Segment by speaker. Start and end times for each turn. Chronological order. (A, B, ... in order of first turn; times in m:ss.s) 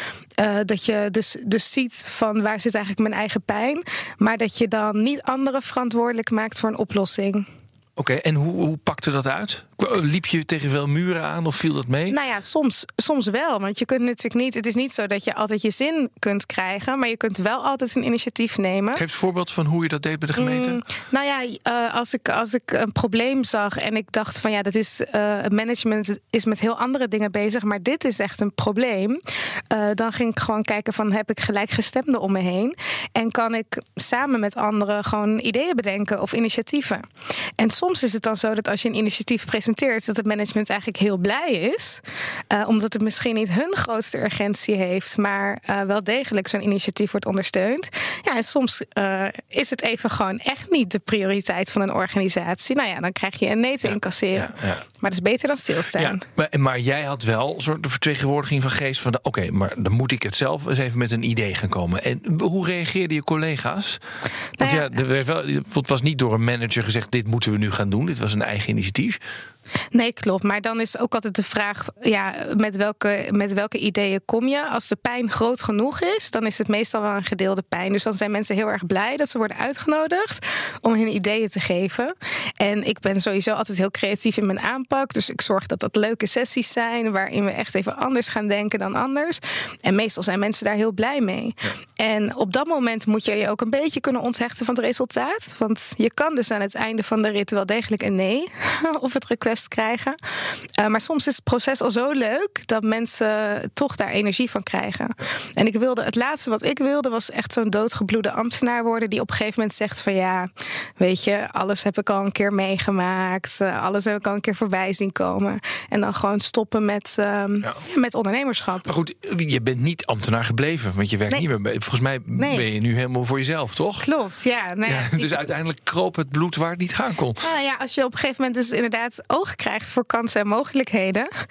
0:00.4-0:07.5 A
0:08.0-0:12.2 B
0:12.1-0:19.0 A
0:19.0-0:20.8 B
0:20.4-0:37.1 A
0:37.6-0:56.2 A
0:53.9-0:54.8 B
0:56.0-1:04.0 B
1:04.6-1:09.2 B
1:04.6-1:04.9 A
1:09.9-1:40.2 A
1:40.8-1:50.5 A
1:51.0-1:58.9 A
1:58.9-2:04.1 B
2:02.4-2:02.6 A
2:04.0-2:05.4 A
2:04.9-2:07.4 B
2:07.4-2:11.3 A